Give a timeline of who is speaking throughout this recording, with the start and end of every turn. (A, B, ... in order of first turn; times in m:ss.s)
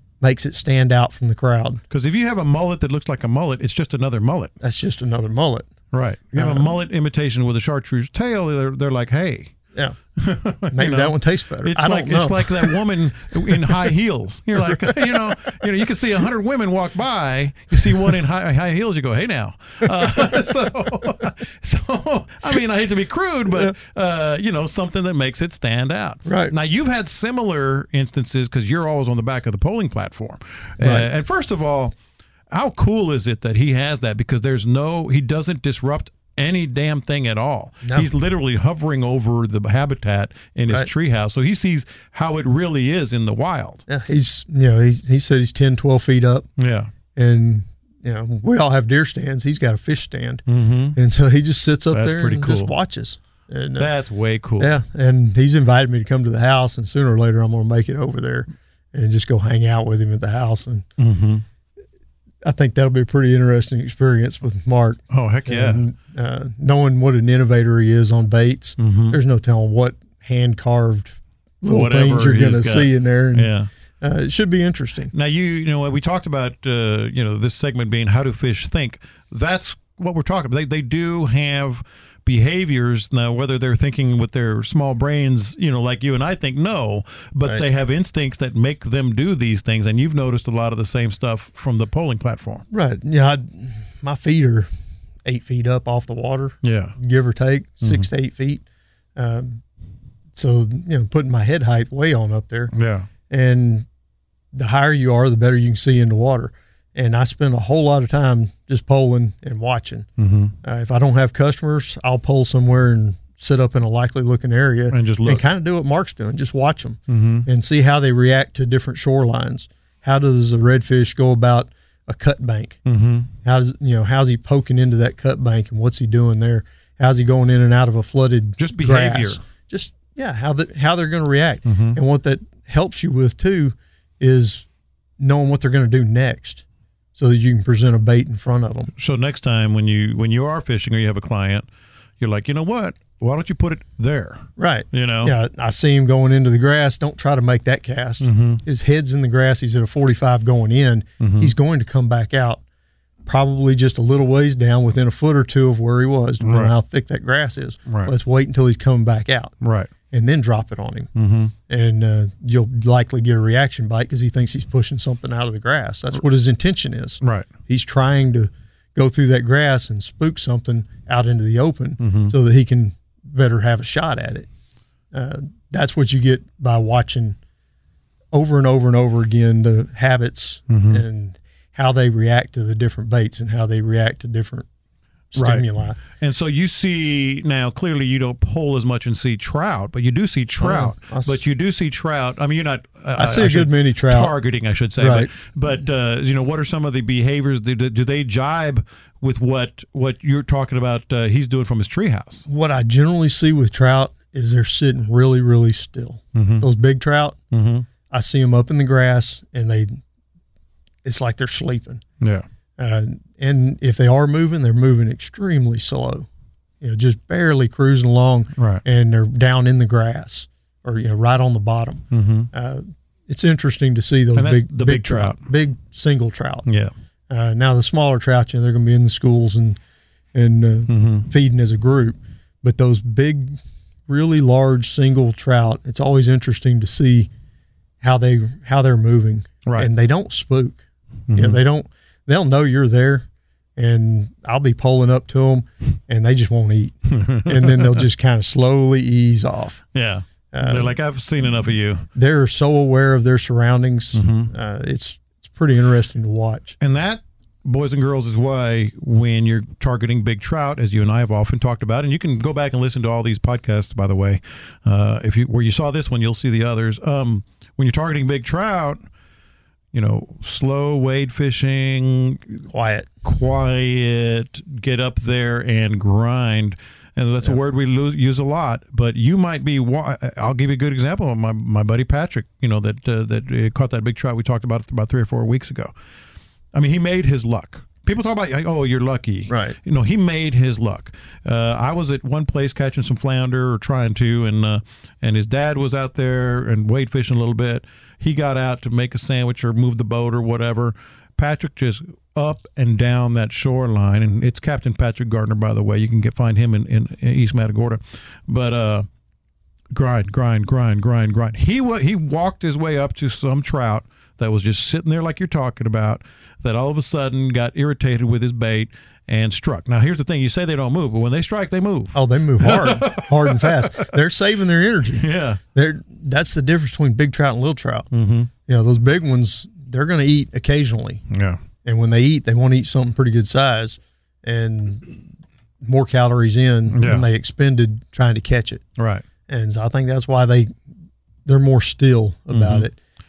0:00.2-0:01.8 A
0:01.9-0:04.5 B
0:04.6-0:05.7 A
0:05.9-0:09.5 B
0:06.3-0:06.7 A
0:10.2-0:31.9 B
0:10.7-0:12.8 A
0:13.5-0:13.9 A
0:14.5-0:15.5 A
0:26.2-0:26.5 A
0:30.8-0:31.1 A
0:32.5-0:43.8 B
0:37.8-0:38.1 A
0:43.9-0:46.5 A
0:46.6-0:46.9 B
0:47.1-0:50.4 A
0:50.5-0:51.0 B
0:50.9-0:53.9 A
0:51.9-0:52.7 B
0:53.8-0:54.7 B
0:54.6-1:00.8 A
1:01.0-1:01.4 B
1:02.4-1:15.1 A
1:05.1-1:05.8 B
1:08.8-1:09.2 B
1:11.7-1:13.7 B
1:15.1-1:32.6 B
1:32.7-1:34.7 A
1:35.2-1:38.6 A
1:36.6-1:37.0 B
1:37.8-1:38.1 B
1:39.2-1:39.6 A
1:40.3-1:42.7 A
1:42.7-1:43.1 B
1:43.3-1:43.8 A
1:44.5-1:50.1 A
1:50.2-1:50.5 B
1:50.6-2:02.8 A
1:54.9-1:55.4 B
1:57.1-1:57.5 B
2:02.8-2:03.3 B
2:03.4-2:14.6 A
2:08.6-2:09.4 B
2:11.6-2:12.0 B
2:15.2-2:16.6 A
2:17.1-2:18.9 A
2:19.0-2:21.7 B
2:22.2-2:25.3 B
2:24.6-2:32.6 A
2:28.2-2:28.6 B
2:31.2-2:31.5 B
2:33.2-2:39.5 A
2:36.4-2:36.7 B
2:37.8-2:38.1 B
2:39.6-2:39.9 B
2:40.1-2:41.1 A
2:41.1-2:41.5 B
2:41.7-2:54.5 A
2:47.2-2:47.5 B
2:52.0-2:52.3 B
2:55.1-2:57.4 A
2:58.3-3:04.6 A
3:00.7-3:01.0 B
3:05.3-3:06.0 A
3:05.3-3:22.4 B
3:10.6-3:11.4 A
3:13.2-3:14.3 A
3:15.0-3:15.3 A
3:22.5-3:27.4 A
3:26.3-3:26.6 B
3:27.5-3:27.9 B
3:28.1-3:30.0 A
3:31.0-3:32.0 A
3:32.2-3:32.4 B
3:32.8-3:36.3 A
3:36.8-3:46.6 A
3:38.6-3:38.8 B
3:42.1-3:42.5 B
3:44.3-3:45.4 B
3:46.6-3:46.9 B
3:47.3-3:49.8 A
3:50.3-3:57.3 A
3:50.9-3:51.3 B
3:58.0-4:00.8 A
3:59.6-3:59.9 B
4:01.3-4:01.6 B
4:01.3-4:03.2 A
4:03.8-4:09.8 A
4:07.1-4:08.0 B
4:09.9-4:12.0 B
4:10.5-4:10.9 A
4:12.1-4:16.8 A
4:14.1-4:14.5 B
4:16.8-4:29.0 B
4:29.9-4:32.6 B
4:32.7-4:33.1 A
4:33.2-4:45.9 B
4:46.7-5:09.0 B
4:49.5-4:49.8 A
5:09.9-5:24.1 B
5:22.1-5:28.1 A
5:25.2-5:25.6 B
5:28.1-5:28.5 B
5:28.6-5:31.2 A
5:31.3-5:31.6 B
5:31.8-5:35.2 A
5:35.8-5:38.8 A
5:36.9-5:37.2 B
5:39.0-5:39.2 B
5:39.5-5:40.7 A
5:41.4-5:43.0 A
5:42.5-5:42.9 B